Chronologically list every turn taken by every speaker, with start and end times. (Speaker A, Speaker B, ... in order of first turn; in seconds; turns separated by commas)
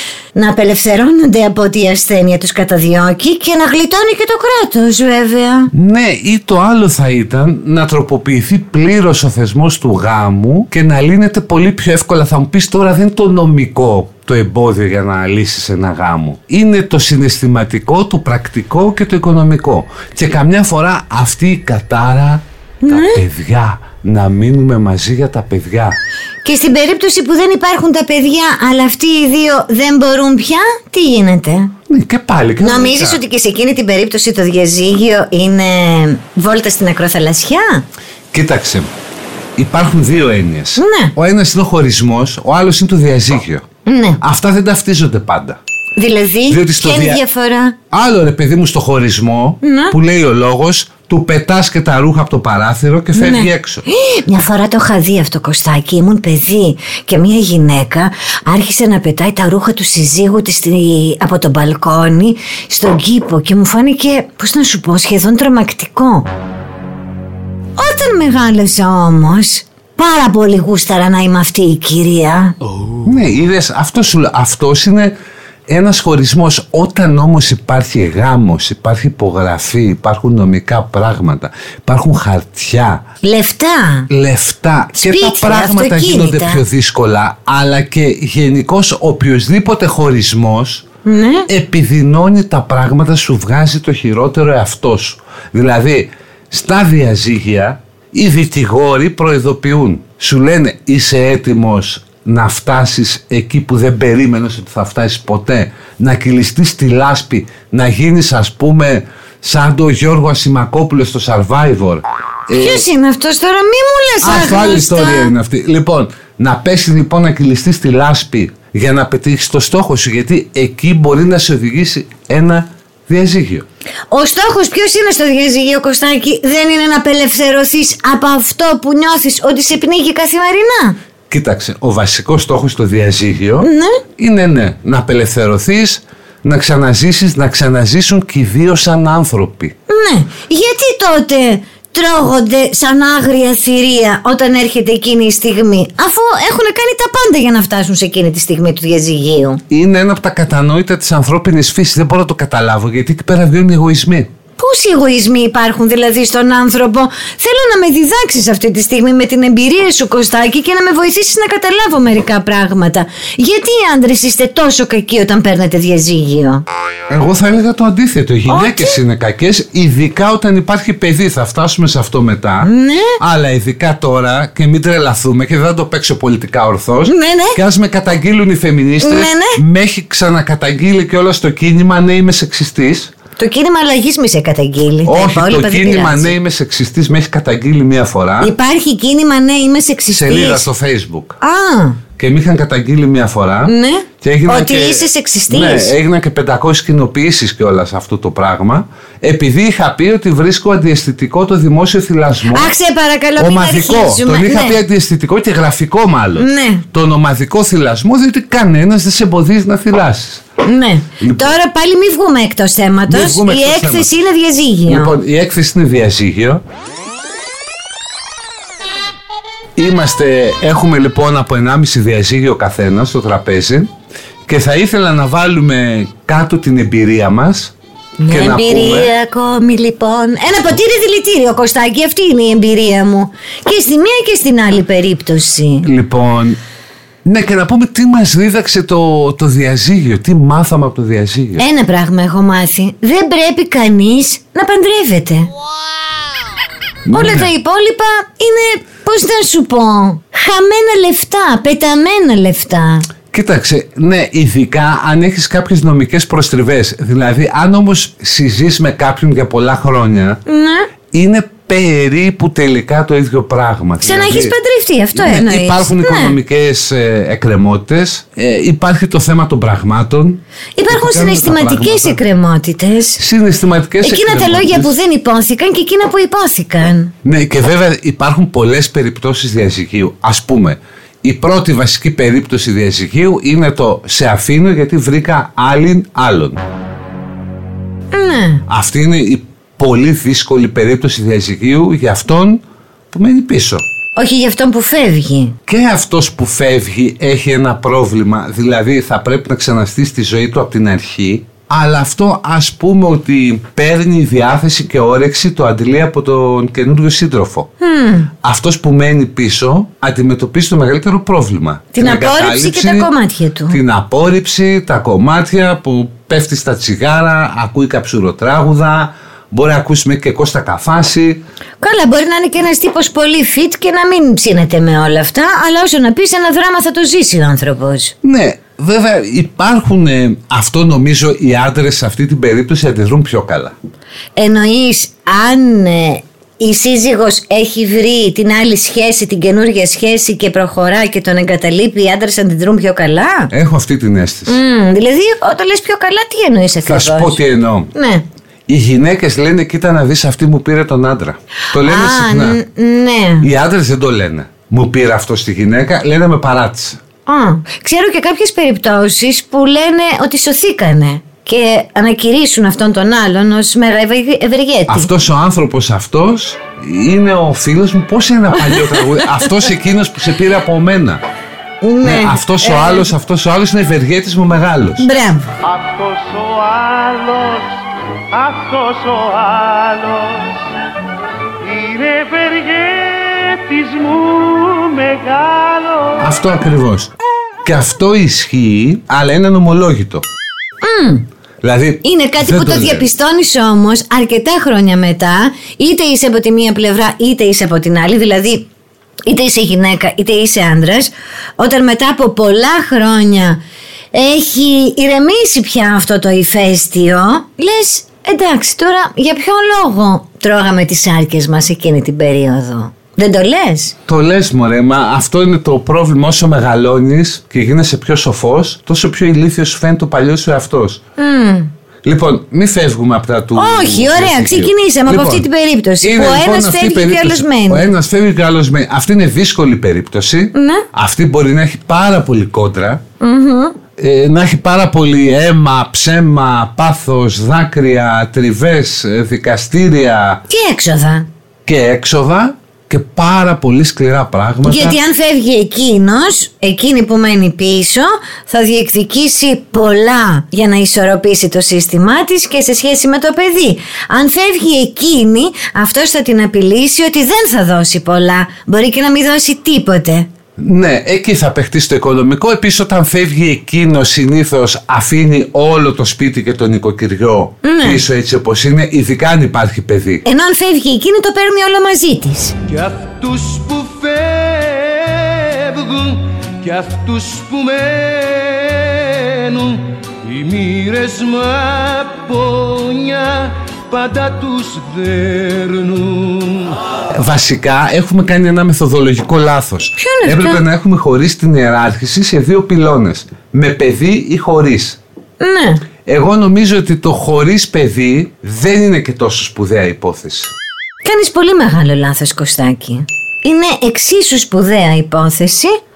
Speaker A: 0.3-5.7, Speaker B: 5.7-25.9, Speaker A: 22.8-23.2, Speaker A: 26.4-31.7, Speaker B: 31.9-33.2, Speaker A: 32.6-37.9, Speaker B: 38.3-38.9, Speaker B: 39.6-43.6, Speaker A: 40.8-41.1, Speaker A: 43.9-44.2, Speaker B: 44.2-45.6, Speaker A: 46.0-47.8, Speaker B: 46.5-47.2, Speaker B: 47.9-53.9, Speaker A: 49.6-50.0, Speaker A: 53.1-66.3, Speaker A: 67.8-72.5, Speaker B: 73.0-75.1, Speaker B: 75.7-83.0, Speaker A: 83.2-84.1, Speaker B: 84.1-90.8, Speaker A: 84.9-86.6, Speaker A: 91.0-91.5, Speaker B: 91.5-112.8, Speaker A: 112.5-115.3, Speaker B: 114.2-123.6, Speaker A: 124.1-131.0, Speaker B: 131.3-139.7, Speaker A: 133.6-134.0, Speaker A: 139.9-149.6, Speaker B: 149.7-154.3, Speaker A: 154.6-166.6, Speaker B: 167.1-183.1, Speaker A: 168.5-169.0, Speaker A: 172.6-173.2, Speaker A: 177.1-177.6, Speaker A: 179.0-179.6, Speaker A: 183.4-186.3, Speaker B: 185.0-188.5, Speaker A: 188.4-190.6, Speaker B: 190.1-191.4, Speaker A: 191.4-192.0, Speaker B: 192.2-202.7, Speaker A: 193.7-195.9, Speaker A: 202.5-204.8, Speaker B: 203.4-210.4, Speaker A: 206.4-206.8, Speaker A: 210.6-215.1, Speaker B: 211.2-211.5, Speaker B: 213.1-214.1, Speaker B: 214.9-216.6, Speaker B: 219.8-223.9, Speaker B: 224.4-227.7, Speaker A: 228.2-235.9, Speaker B: 228.3-229.1, Speaker B: 235.8-236.6, Speaker B: 237.2-241.6, Speaker A: 241.6-245.5, Speaker B: 247.1-247.5, Speaker A: 247.1-253.1, Speaker B: 253.3-260.4, Speaker A: 260.4-260.9, Speaker B: 261.1-264.5, Speaker A: 264.0-266.4, Speaker B: 265.1-272.2, Speaker A: 270.8-273.2, Speaker B: 273.2-274.9, Speaker A: 274.0-277.1, Speaker B: 277.2-286.6, Speaker A: 288.1-288.6, Speaker B: 288.7-293.8, Speaker A: 294.1-295.6, Speaker B: 295.7-307.7, Speaker A: 307.8-308.3, Speaker B: 308.4-313.1, Speaker A: 311.9-313.8, Speaker B: 313.7-321.4, Speaker A: 321.8-328.1, Speaker B: 328.2-333.7, Speaker A: 334.4-343.5, Speaker B: 343.5-344.6, Speaker A: 344.5-347.4, Speaker B: 346.8-347.9, Speaker A: 347.9-348.2, Speaker B: 348.7-352.6, Speaker A: 351.7-353.5, Speaker B: 353.4-357.0, Speaker A: 357.2-365.1, Speaker B: 364.9-371.2, Speaker A: 368.6-369.5, Speaker A: 371.8-373.1, Speaker B: 372.0-375.1, Speaker A: 375.0-375.5, Speaker C: 375.6-377.7, Speaker C: 378.3-380.5, Speaker C: 381.6-386.2, Speaker B: 386.2-387.1, Speaker B: 387.6-390.2, Speaker A: 390.8-391.2, Speaker B: 391.6-393.1, Speaker A: 392.0-398.7, Speaker A: 399.2-403.6, Speaker A: 404.1-413.9, Speaker B: 414.1-421.0, Speaker A: 421.2-421.7, Speaker B: 422.0-425.4, Speaker A: 423.5-427.9, Speaker B: 426.0-433.0, Speaker A: 430.5-430.9, Speaker A: 433.2-433.8, Speaker B: 434.0-440.4, Speaker A: 440.5-441.3, Speaker B: 441.6-445.0, Speaker A: 444.6-460.3, Speaker B: 460.6-470.2, Speaker A: 467.6-468.0, Speaker A: 470.2-472.5, Speaker D: 472.7-476.1, Speaker D: 476.6-478.2, Speaker C: 476.6-477.9, Speaker D: 480.3-486.0, Speaker B: 487.1-495.0, Speaker A: 490.0-490.6, Speaker A: 495.4-495.8, Speaker B: 496.1-500.5, Speaker A: 501.0-505.8